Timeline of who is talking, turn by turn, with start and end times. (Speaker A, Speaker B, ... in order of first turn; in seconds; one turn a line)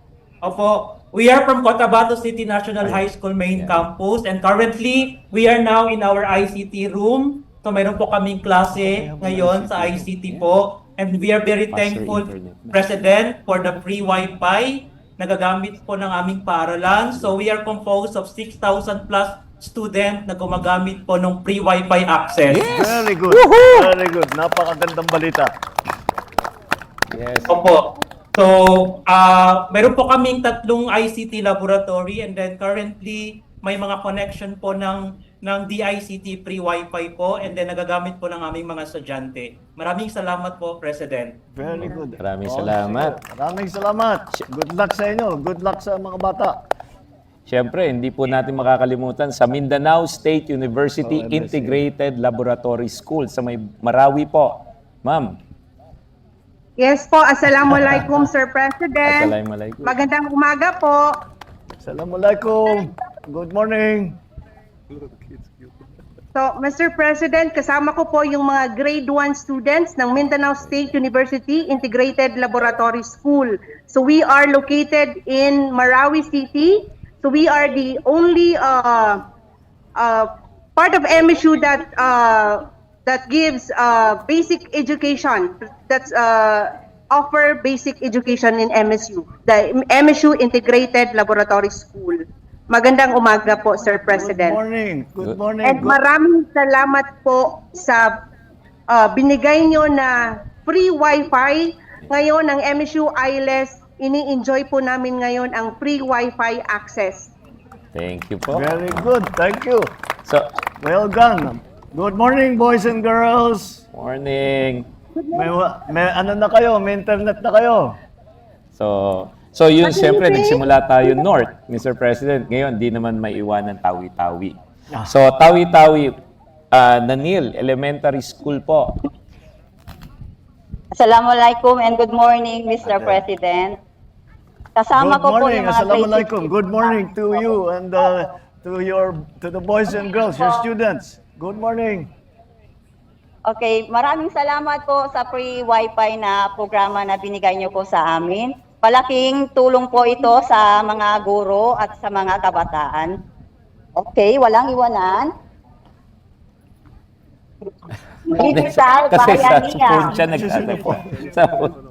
Speaker A: 0.5-12.2
Speaker B: 2.8-3.9
Speaker C: 8.8-9.4
Speaker B: 9.2-10.5
Speaker B: 11.7-12.8
Speaker A: 12.8-22.5
Speaker B: 22.5-23.9
Speaker C: 22.7-25.5
Speaker B: 27.1-27.6
Speaker A: 28.4-41.3
Speaker C: 41.5-46.6
Speaker B: 42.2-43.2
Speaker B: 47.5-55.4
Speaker C: 51.0-51.8
Speaker D: 56.8-61.1
Speaker B: 59.0-60.0
Speaker C: 61.8-64.2
Speaker D: 66.3-79.2
Speaker D: 80.0-94.6
Speaker C: 94.1-96.0
Speaker D: 95.6-98.2
Speaker D: 98.9-107.3
Speaker B: 107.9-109.1
Speaker C: 108.5-109.9
Speaker C: 110.8-113.8
Speaker B: 113.9-114.9
Speaker D: 115.2-115.5
Speaker C: 115.3-118.0
Speaker B: 118.8-126.2
Speaker D: 119.8-120.6
Speaker B: 126.7-128.9
Speaker E: 130.9-133.8
Speaker E: 134.8-137.6
Speaker C: 134.9-142.1
Speaker E: 140.4-140.7
Speaker E: 143.4-153.2
Speaker E: 154.0-155.3
Speaker E: 158.3-160.2
Speaker B: 158.3-161.8
Speaker C: 160.3-161.2